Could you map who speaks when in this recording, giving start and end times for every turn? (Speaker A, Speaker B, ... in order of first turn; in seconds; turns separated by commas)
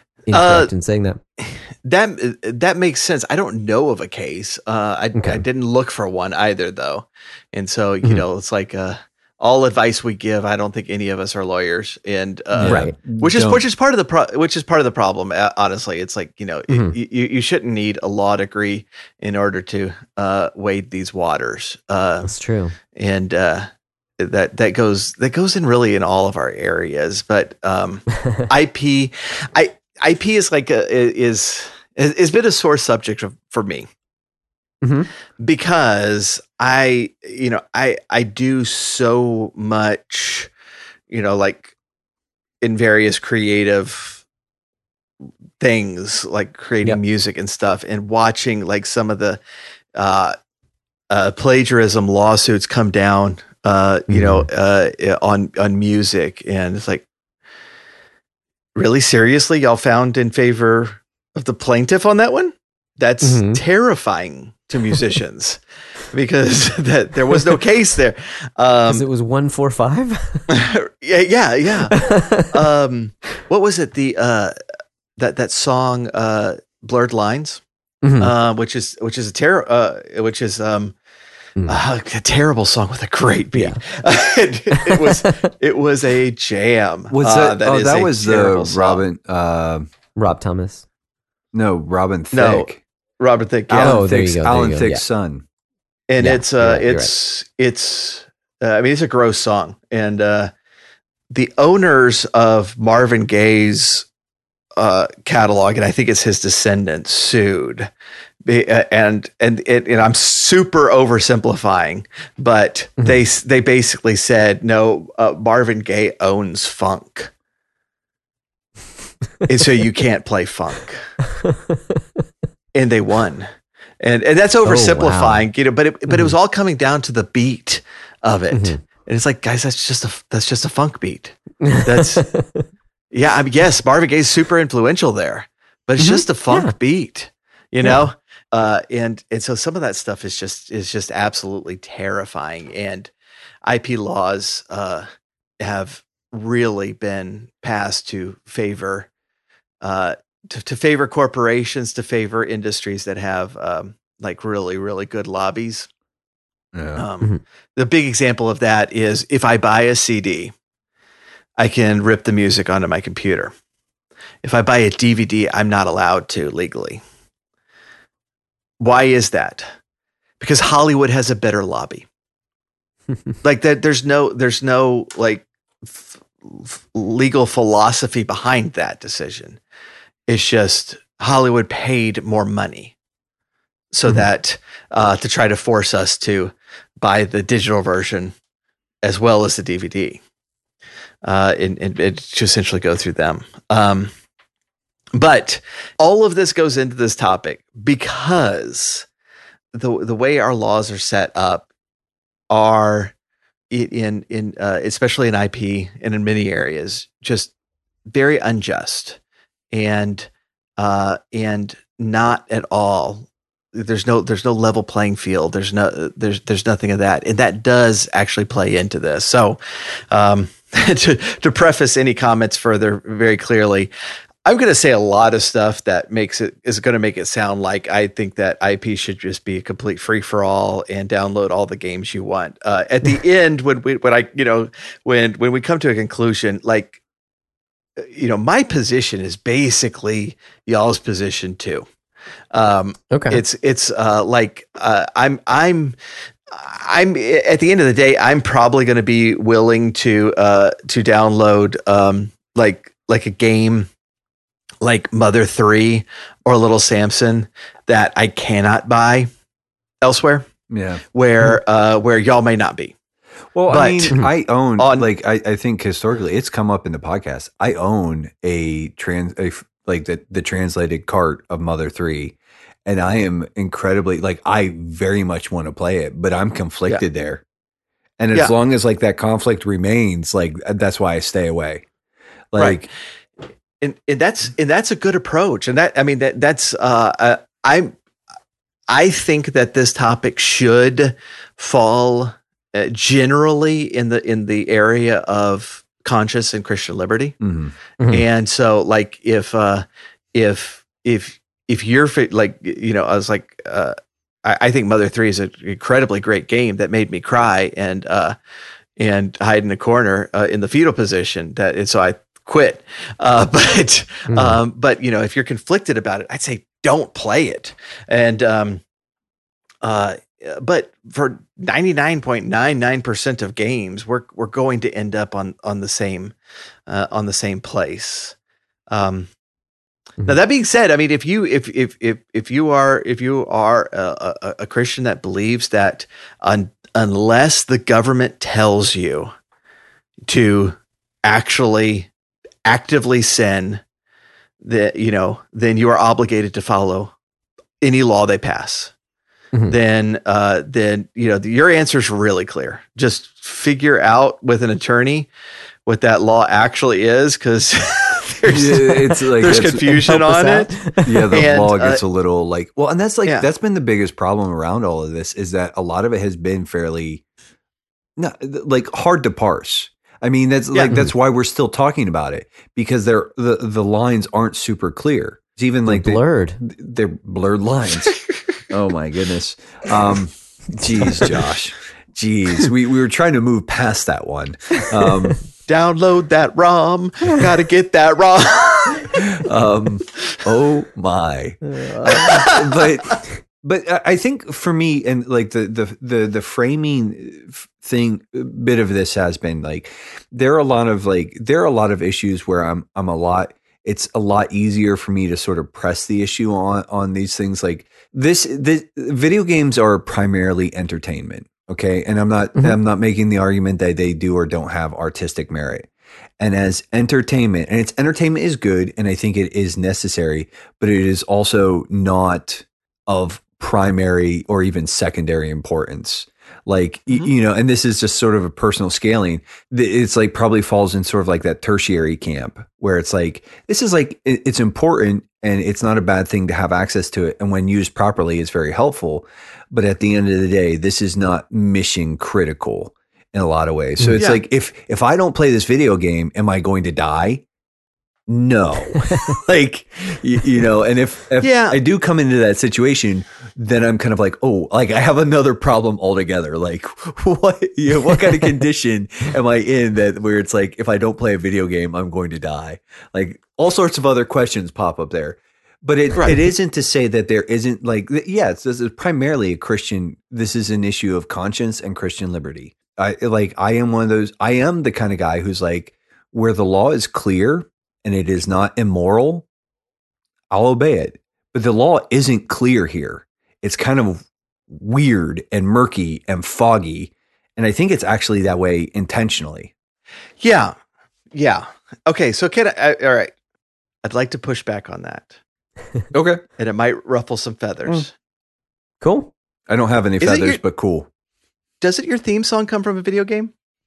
Speaker A: 0.3-1.2, Speaker B: 0.3-0.7, Speaker B: 1.4-22.3, Speaker A: 5.1-5.4, Speaker C: 12.5-13.6, Speaker A: 12.6-12.9, Speaker A: 16.7-16.9, Speaker A: 22.2-22.7, Speaker B: 22.9-23.7, Speaker B: 24.2-33.9, Speaker A: 34.8-35.1, Speaker B: 35.4-40.5, Speaker B: 41.1-41.7, Speaker B: 42.6-44.2, Speaker B: 45.6-49.4, Speaker B: 49.9-50.4, Speaker B: 51.1-57.0, Speaker A: 54.1-54.5, Speaker B: 58.7-65.6, Speaker A: 63.2-63.6, Speaker B: 66.1-69.0, Speaker A: 68.9-70.5, Speaker B: 70.5-74.6, Speaker A: 71.9-72.5, Speaker B: 75.2-77.6, Speaker A: 78.0-78.3, Speaker B: 78.2-80.9, Speaker B: 81.7-89.0, Speaker A: 84.7-85.3, Speaker C: 87.1-89.9, Speaker A: 90.2-90.8, Speaker C: 91.5-92.8, Speaker B: 92.3-94.0, Speaker C: 93.7-95.4, Speaker A: 93.8-95.0, Speaker B: 96.1-100.5, Speaker A: 96.2-97.1, Speaker B: 101.3-104.0, Speaker B: 104.8-107.9, Speaker B: 108.4-117.3, Speaker B: 119.5-121.0, Speaker A: 121.3-121.9, Speaker B: 122.7-123.5, Speaker B: 124.0-132.2, Speaker A: 124.6-125.4, Speaker A: 128.5-128.8, Speaker A: 131.6-132.7, Speaker B: 133.1-143.1, Speaker A: 136.0-136.7, Speaker B: 143.6-145.1, Speaker B: 145.6-149.1, Speaker B: 149.8-155.9, Speaker C: 156.7-157.0, Speaker B: 156.9-160.5, Speaker B: 161.6-163.5, Speaker B: 164.4-167.0, Speaker B: 168.8-169.7, Speaker B: 170.4-172.1, Speaker B: 173.4-179.6, Speaker B: 180.3-182.9, Speaker B: 183.9-188.3, Speaker B: 189.0-190.2, Speaker B: 191.2-194.1, Speaker B: 195.1-199.1, Speaker B: 199.7-201.6, Speaker B: 202.5-203.1, Speaker B: 203.7-207.5, Speaker B: 208.1-209.2, Speaker B: 209.7-219.6, Speaker B: 220.1-223.9, Speaker B: 224.4-237.0, Speaker B: 238.0-241.9, Speaker B: 242.5-245.9, Speaker A: 243.1-243.4, Speaker B: 246.5-253.9, Speaker B: 254.8-259.3, Speaker B: 260.0-260.5, Speaker C: 260.7-261.0, Speaker B: 261.1-262.9, Speaker C: 263.5-277.4, Speaker B: 263.7-264.2, Speaker B: 264.8-265.1, Speaker C: 278.2-281.9, Speaker C: 282.5-282.9, Speaker B: 282.6-282.9, Speaker B: 283.8-287.9, Speaker B: 288.9-297.4, Speaker C: 297.4-297.7, Speaker A: 298.0-298.2, Speaker B: 298.1-308.4, Speaker B: 309.0-318.8, Speaker A: 314.3-314.6, Speaker B: 319.8-326.3, Speaker B: 326.9-328.3, Speaker B: 328.9-329.3, Speaker B: 330.2-339.3, Speaker B: 340.3-342.1, Speaker B: 342.6-343.8, Speaker B: 344.6-347.1, Speaker B: 347.8-348.9, Speaker B: 349.7-355.3, Speaker B: 355.9-362.0, Speaker C: 358.5-359.9, Speaker A: 359.9-361.2, Speaker C: 361.0-367.2, Speaker C: 368.2-378.1, Speaker A: 375.9-376.6, Speaker C: 378.7-385.4, Speaker B: 385.7-389.2, Speaker C: 389.2-415.9, Speaker A: 391.7-392.3, Speaker B: 392.1-392.8, Speaker C: 416.4-447.4, Speaker C: 448.3-479.4, Speaker B: 451.4-451.8, Speaker C: 480.5-489.7, Speaker B: 490.4-490.7, Speaker B: 491.3-493.3, Speaker B: 494.0-495.4, Speaker C: 496.1-496.4, Speaker B: 496.6-498.1, Speaker A: 499.0-499.3, Speaker C: 499.7-501.1, Speaker B: 500.2-500.6, Speaker B: 501.8-503.5